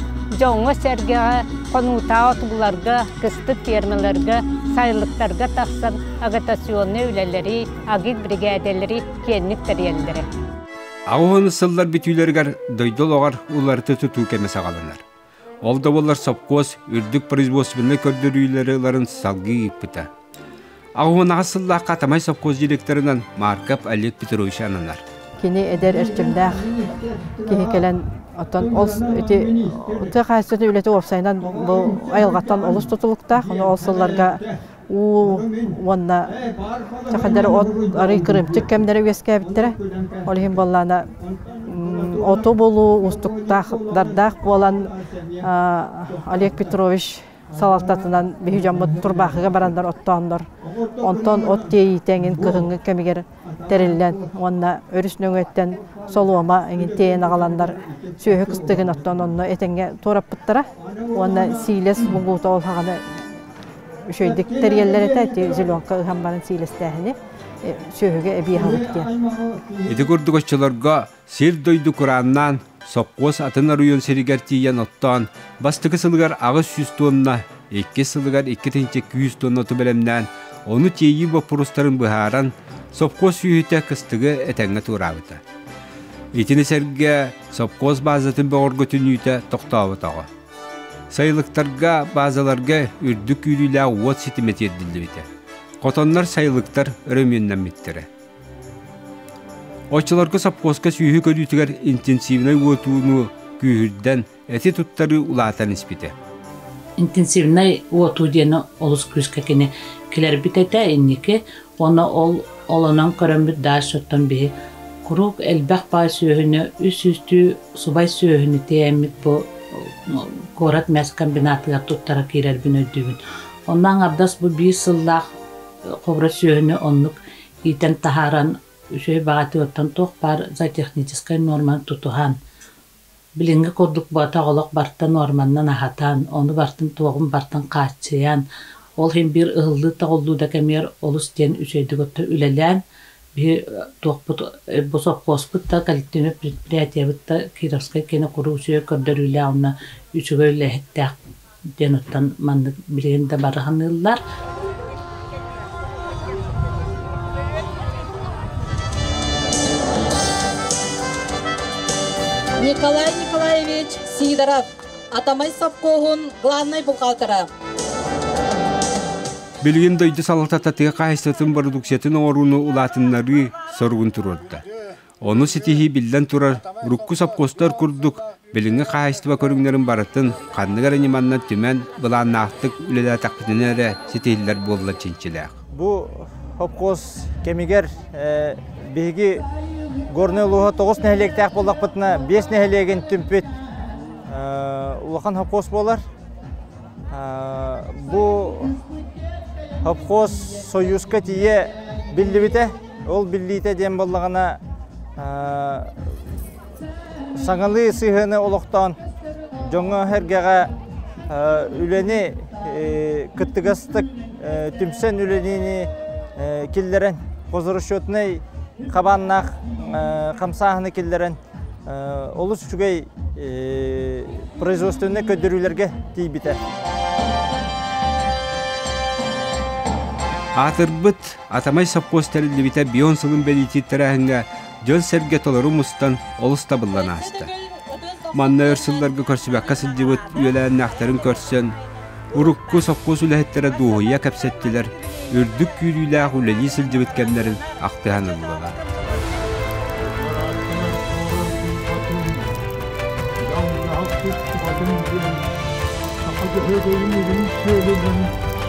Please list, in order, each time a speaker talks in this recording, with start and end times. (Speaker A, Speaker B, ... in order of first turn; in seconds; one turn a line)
Speaker A: 0.3-10.3
Speaker B: 11.1-15.0
Speaker B: 15.6-20.1
Speaker B: 21.0-25.0
Speaker C: 25.4-26.7
Speaker C: 27.4-36.4
Speaker C: 37.1-41.1
Speaker C: 41.6-63.3
Speaker C: 64.1-69.1
Speaker B: 69.9-85.4
Speaker B: 86.3-90.3
Speaker B: 91.1-95.3
Speaker B: 95.8-98.1
Speaker B: 99.9-106.2
Speaker D: 107.0-114.5
Speaker D: 115.0-125.3
Speaker D: 126.0-132.4
Speaker D: 133.4-138.4
Speaker D: 139.0-142.8
Speaker D: 143.3-151.1
Speaker D: 151.8-154.2
Speaker E: 162.6-167.5
Speaker B: 169.6-174.7
Speaker B: 175.2-185.6
Speaker F: 185.7-189.4
Speaker F: 190.1-193.5
Speaker F: 194.3-196.0
Speaker F: 197.1-198.8
Speaker F: 199.8-204.6
Speaker F: 205.2-206.1
Speaker F: 207.4-209.0
Speaker F: 209.7-210.7
Speaker F: 211.3-226.6
Speaker B: 230.5-237.5
Speaker B: 238.3-241.8
Speaker B: 242.3-248.8
Speaker G: 250.0-252.5
Speaker G: 253.4-255.5
Speaker G: 256.2-258.3